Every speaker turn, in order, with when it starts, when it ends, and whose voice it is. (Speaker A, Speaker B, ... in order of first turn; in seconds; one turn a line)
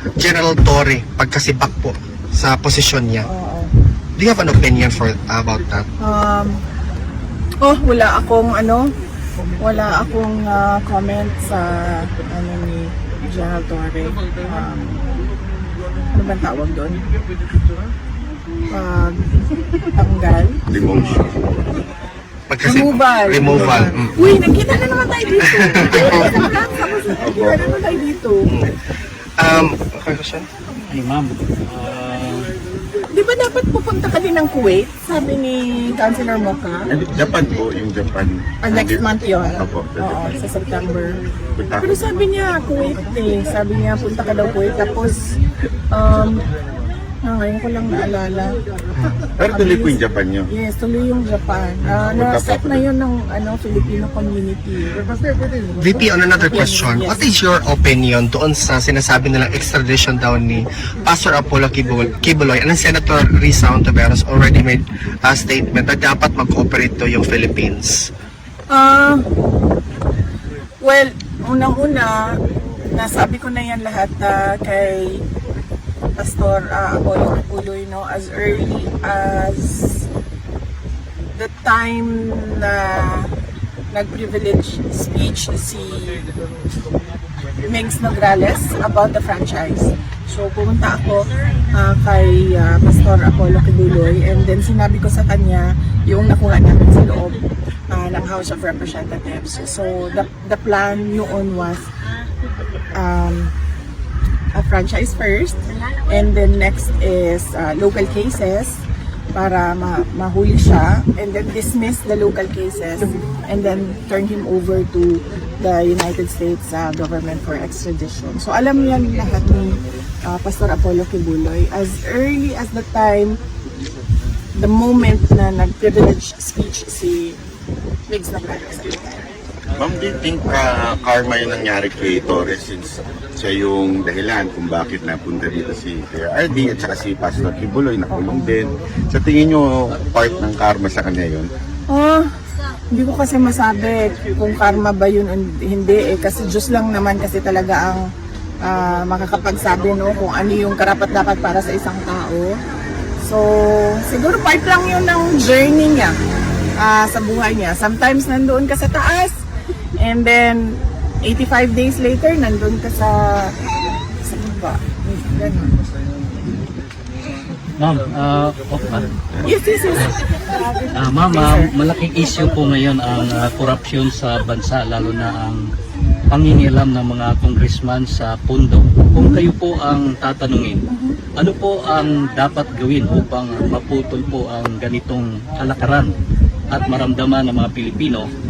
Speaker A: 0.2-3.3
Speaker B: 3.2-3.7
Speaker A: 4.2-5.9
Speaker B: 6.0-6.6
Speaker B: 7.6-8.9
Speaker B: 9.6-15.0
Speaker B: 16.1-17.0
Speaker B: 18.7-19.2
Speaker B: 19.9-20.6
Speaker C: 20.7-21.6
Speaker A: 22.5-24.4
Speaker B: 22.6-28.5
Speaker A: 25.7-26.3
Speaker C: 27.2-27.6
Speaker A: 29.4-30.5
Speaker D: 30.9-32.5
Speaker B: 33.1-36.9
Speaker C: 36.9-39.0
Speaker B: 38.6-41.2
Speaker C: 39.6-40.4
Speaker C: 41.6-41.9
Speaker B: 41.8-45.3
Speaker B: 45.9-46.4
Speaker B: 47.2-48.6
Speaker C: 49.4-50.5
Speaker B: 49.5-55.0
Speaker C: 52.0-52.8
Speaker A: 55.8-68.1
Speaker B: 56.5-57.2
Speaker B: 68.7-69.2
Speaker B: 70.8-72.4
Speaker B: 72.9-75.2
Speaker B: 76.2-80.1
Speaker B: 81.4-83.3
Speaker B: 83.9-86.2
Speaker B: 87.6-97.4
Speaker B: 97.9-101.9
Speaker B: 102.9-103.5
Speaker B: 104.5-108.8
Speaker B: 109.3-123.4
Speaker B: 124.6-127.4
Speaker B: 128.1-129.3
Speaker C: 129.8-141.5
Speaker B: 138.1-138.5
Speaker B: 141.9-142.3
Speaker B: 142.9-148.0
Speaker B: 148.6-152.6
Speaker B: 153.2-156.2
Speaker B: 156.8-159.4
Speaker B: 160.0-163.6
Speaker B: 164.2-165.8
Speaker D: 167.8-169.2
Speaker B: 169.4-171.7
Speaker D: 170.9-175.7
Speaker D: 176.3-180.8
Speaker B: 179.2-179.5
Speaker B: 180.9-181.2
Speaker D: 181.4-186.1
Speaker D: 186.7-188.3